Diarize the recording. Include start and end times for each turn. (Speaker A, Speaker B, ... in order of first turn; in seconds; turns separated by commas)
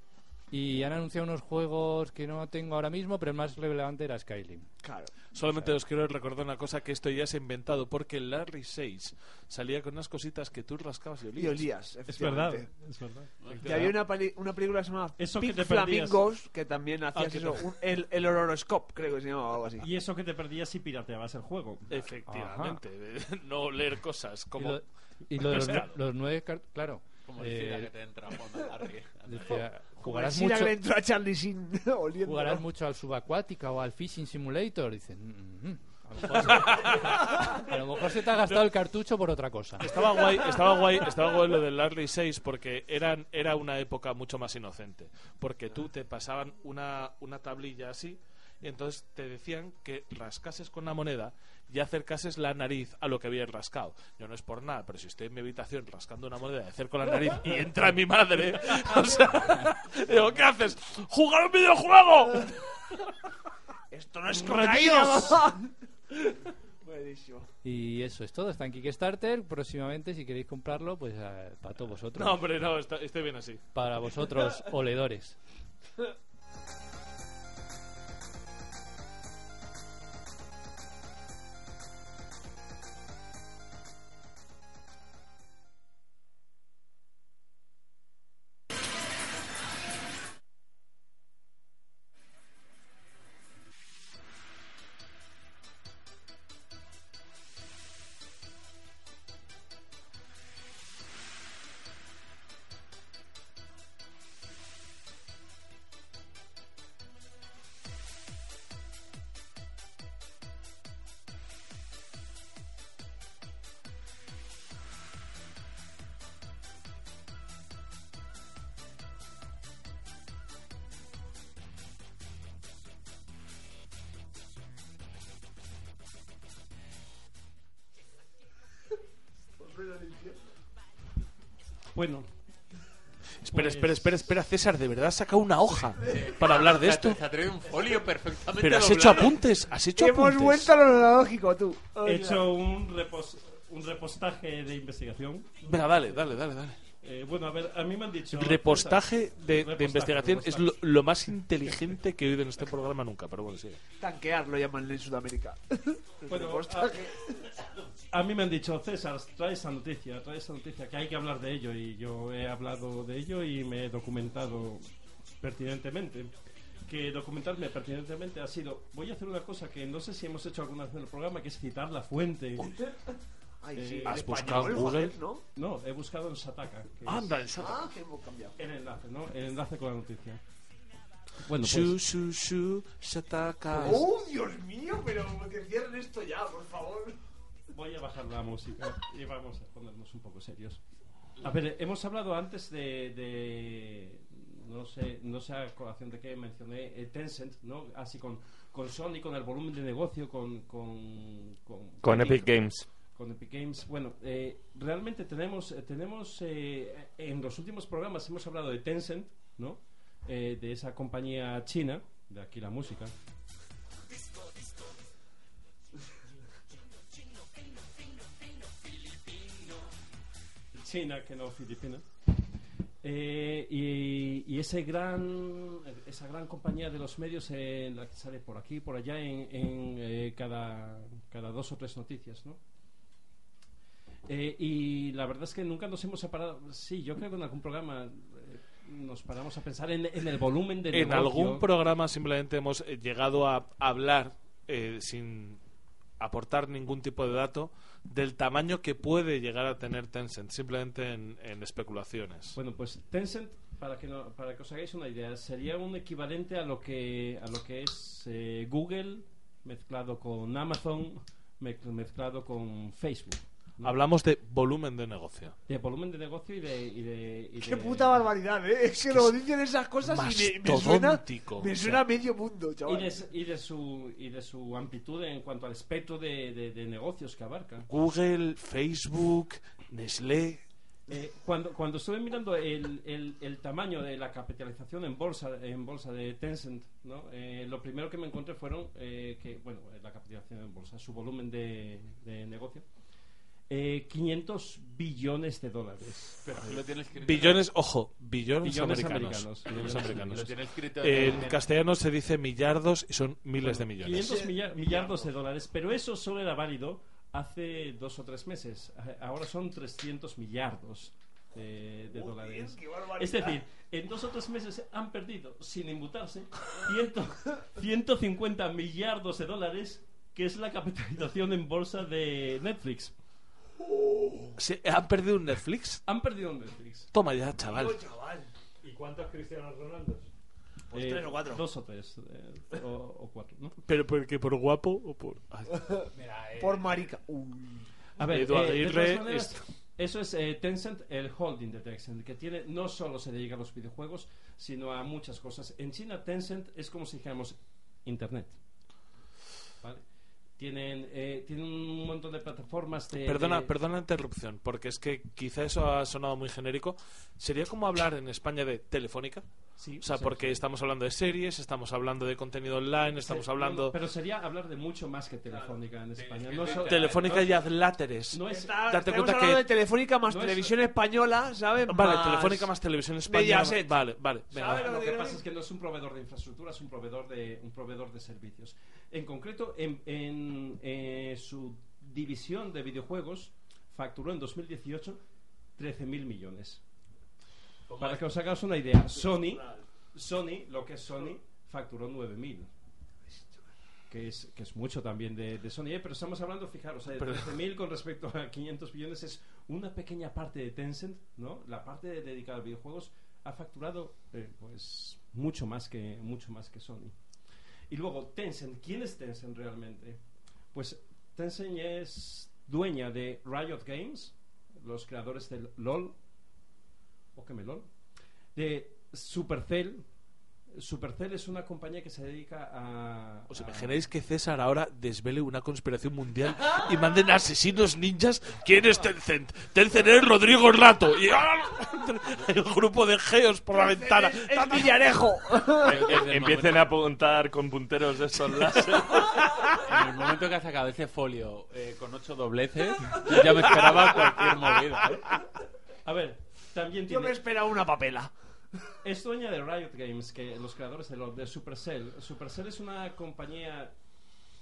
Speaker A: 0.5-4.7, Speaker B: 4.8-5.1, Speaker C: 5.3-11.7, Speaker A: 5.4-5.7, Speaker B: 11.4-12.7, Speaker D: 12.1-14.0, Speaker E: 13.4-13.8, Speaker B: 13.6-19.9, Speaker D: 15.2-16.3, Speaker D: 17.1-17.6, Speaker D: 19.8-22.1, Speaker C: 21.9-24.8, Speaker A: 22.3-22.8, Speaker A: 24.6-27.9, Speaker C: 25.4-25.9, Speaker E: 27.2-29.6, Speaker A: 29.2-30.7, Speaker B: 30.0-32.6, Speaker A: 32.2-39.9, Speaker C: 36.3-37.4, Speaker C: 38.4-38.7, Speaker C: 39.8-63.0, Speaker B: 39.9-41.0, Speaker B: 63.9-65.7, Speaker C: 64.5-65.3, Speaker B: 66.8-67.5, Speaker A: 67.6-72.4, Speaker C: 72.1-73.7, Speaker A: 73.7-75.4, Speaker B: 129.7-130.3, Speaker D: 131.9-132.5, Speaker C: 133.4-137.2, Speaker D: 133.5-134.1, Speaker E: 136.1-139.4, Speaker C: 138.6-140.7, Speaker B: 140.0-142.5, Speaker D: 142.0-145.5, Speaker C: 145.6-146.8, Speaker D: 147.0-150.7, Speaker C: 148.3-153.8, Speaker B: 154.0-157.5, Speaker D: 156.3-157.0, Speaker D: 158.1-172.7, Speaker B: 172.6-175.4, Speaker D: 173.7-174.8, Speaker C: 174.0-175.2, Speaker D: 175.5-177.4, Speaker C: 177.0-177.9, Speaker B: 177.5-178.6, Speaker D: 178.6-180.4, Speaker D: 181.4-182.0, Speaker C: 181.6-184.0, Speaker D: 183.7-184.0, Speaker B: 183.8-187.2, Speaker D: 187.7-213.1, Speaker F: 202.0-202.9, Speaker D: 220.7-222.1, Speaker D: 223.0-232.6, Speaker D: 234.2-241.7, Speaker C: 240.9-245.6, Speaker C: 246.2-252.6, Speaker D: 252.5-264.0, Speaker C: 263.8-265.6, Speaker D: 265.7-268.3, Speaker B: 267.6-273.2, Speaker C: 270.0-272.0, Speaker D: 272.8-277.9, Speaker C: 277.9-280.6, Speaker D: 281.1-296.8, Speaker E: 296.4-297.6, Speaker C: 297.1-304.3, Speaker D: 298.6-300.5, Speaker E: 300.3-301.5, Speaker D: 301.2-301.5, Speaker D: 303.6-323.1, Speaker B: 304.2-305.3, Speaker B: 312.1-313.6, Speaker B: 323.9-324.6, Speaker C: 324.6-326.0, Speaker D: 326.1-327.1, Speaker C: 327.1-328.0, Speaker B: 327.6-328.5, Speaker F: 328.8-330.3, Speaker B: 330.9-331.7, Speaker D: 330.9-333.8, Speaker C: 333.9-335.8, Speaker B: 335.8-336.0, Speaker E: 336.1-336.9, Speaker B: 336.6-337.9, Speaker D: 338.2-348.6, Speaker C: 338.3-339.7, Speaker D: 349.8-353.7, Speaker C: 353.2-363.9, Speaker D: 359.8-360.6, Speaker D: 363.1-367.6, Speaker E: 366.1-367.3, Speaker C: 366.8-369.6, Speaker D: 368.3-368.8, Speaker B: 368.5-372.7, Speaker D: 370.3-370.7, Speaker C: 371.9-374.9, Speaker B: 373.2-373.9, Speaker B: 374.5-375.4, Speaker D: 374.5-386.8, Speaker D: 387.9-392.7, Speaker B: 389.1-389.8, Speaker D: 394.1-416.2, Speaker C: 397.2-397.6, Speaker D: 417.3-424.0, Speaker C: 423.5-435.1, Speaker B: 433.7-436.1, Speaker E: 435.8-436.9, Speaker F: 435.9-439.5, Speaker C: 436.2-436.7, Speaker C: 438.3-439.6, Speaker E: 439.8-445.3, Speaker D: 446.0-447.4, Speaker B: 447.1-448.4, Speaker D: 449.0-454.2